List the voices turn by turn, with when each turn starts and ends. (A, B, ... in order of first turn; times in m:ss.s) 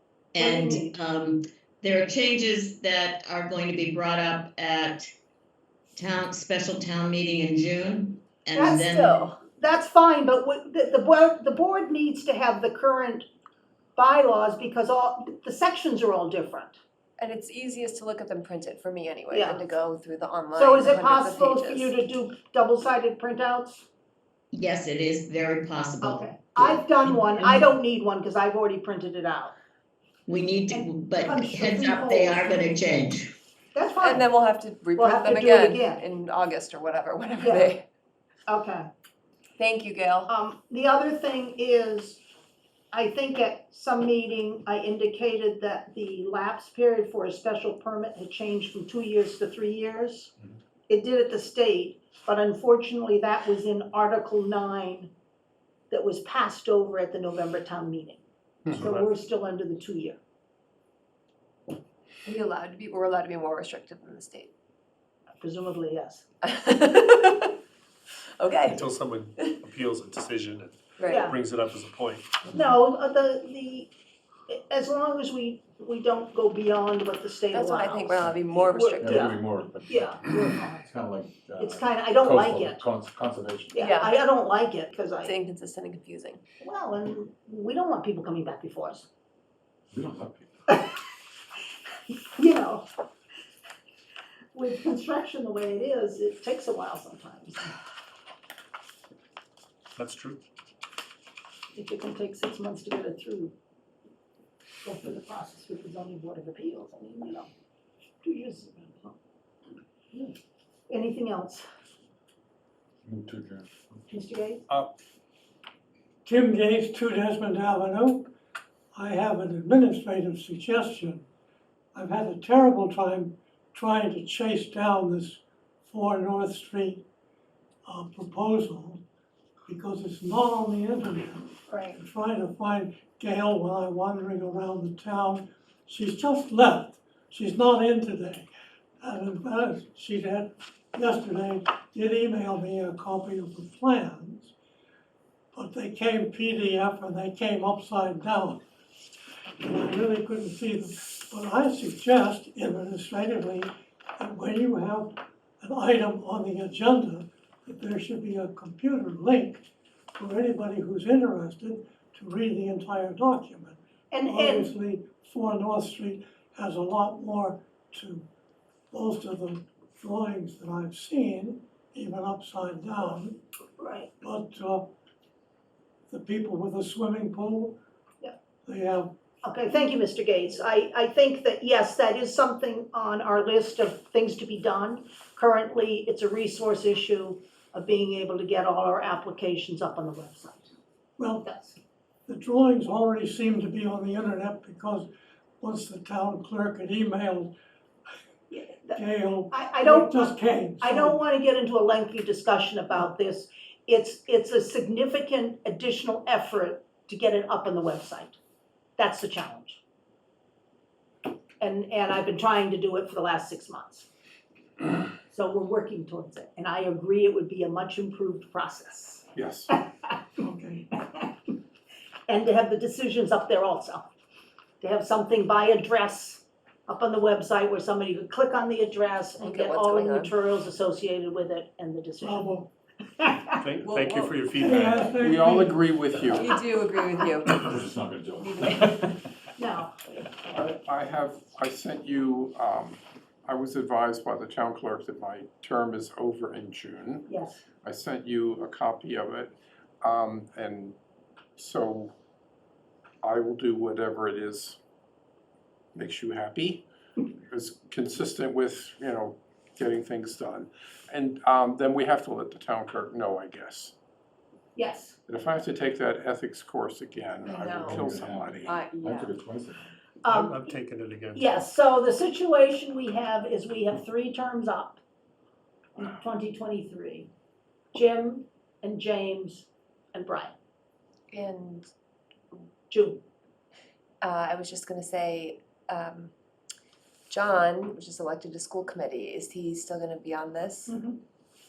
0:00.3-0:05.1 A
0:00.4-0:01.0 B
0:06.0-0:09.3 A
0:08.6-0:08.9 B
0:08.9-0:09.4 C
0:09.5-0:13.3 B
0:14.0-0:16.8 B
0:17.2-0:22.0 C
0:19.3-0:19.6 B
0:20.5-0:23.9 B
0:24.5-0:27.6 A
0:26.0-0:29.5 B
0:30.3-0:33.3 A
0:30.7-0:32.6 B
0:33.8-0:34.3 B
0:34.0-0:37.8 C
0:35.0-0:36.0 B
0:37.4-0:37.8 B
0:38.5-0:38.9 B
0:39.6-0:40.3 C
0:40.3-0:42.2 B
0:42.9-0:50.3 B
0:50.9-0:55.1 B
0:55.9-0:58.2 B
0:58.7-0:59.1 D
0:58.8-1:00.2 B
1:02.2-1:04.5 C
1:05.4-1:06.2 B
1:06.4-1:07.5 C
1:08.4-1:08.8 C
1:08.7-1:12.3 D
1:11.0-1:11.3 C
1:11.1-1:11.4 B
1:12.5-1:13.9 B
1:14.5-1:20.9 B
1:17.5-1:19.3 C
1:19.0-1:23.7 E
1:21.6-1:22.8 B
1:23.7-1:25.3 B
1:23.8-1:24.2 C
1:25.2-1:26.4 C
1:26.6-1:29.1 B
1:29.9-1:30.5 E
1:32.4-1:32.9 B
1:34.5-1:37.7 B
1:40.0-1:40.4 D
1:41.7-1:43.5 B
1:44.8-1:47.5 B
1:48.2-1:49.2 B
1:50.9-1:51.6 B
1:53.1-1:54.0 E
1:54.1-1:54.6 B
1:56.2-1:58.3 F
1:58.9-2:01.3 F
2:01.9-2:07.0 F
2:07.9-2:09.0 F
2:09.7-2:18.5 F
2:11.7-2:12.0 B
2:19.0-2:24.6 F
2:25.5-2:28.6 F
2:29.6-2:48.3 F
2:44.1-2:44.7 B
2:48.9-2:53.4 F
2:53.8-2:54.1 B
2:54.2-2:54.9 F
2:56.1-2:57.8 F
2:58.7-2:59.1 F
2:59.4-3:10.7 B
3:11.2-3:11.5 F
3:11.4-3:11.8 B
3:12.3-3:15.1 F
3:15.6-3:17.5 F
3:18.5-3:28.4 B
3:18.9-3:21.2 F
3:29.0-3:29.8 B
3:31.6-3:34.1 B
3:35.3-3:39.8 B
3:39.4-3:39.7 G
3:40.4-3:40.9 F
3:41.0-3:41.3 B
3:42.3-3:44.1 B
3:44.8-3:52.5 B
3:49.4-3:50.4 C
3:52.2-3:52.7 F
3:53.2-3:54.3 B
3:53.6-3:55.1 D
3:54.6-3:55.9 F
3:55.2-3:56.5 G
3:56.1-3:56.4 E
3:56.3-3:59.0 C
3:57.5-3:59.2 E
3:59.6-3:59.9 B
4:00.5-4:07.3 G
4:07.3-4:07.6 B
4:07.8-4:11.0 G
4:11.6-4:12.1 G
4:13.2-4:14.8 G
4:16.0-4:16.8 G
4:17.5-4:23.9 G
4:24.8-4:25.2 B
4:25.3-4:28.8 G
4:27.4-4:29.3 C
4:27.7-4:29.9 E
4:30.2-4:30.8 B
4:30.3-4:31.6 D
4:31.3-4:35.0 B
4:36.0-4:37.3 B
4:37.9-4:40.5 B
4:41.3-4:41.9 C
4:42.9-4:43.2 B
4:44.2-4:46.3 C
4:47.3-4:51.0 C
4:50.9-4:51.2 B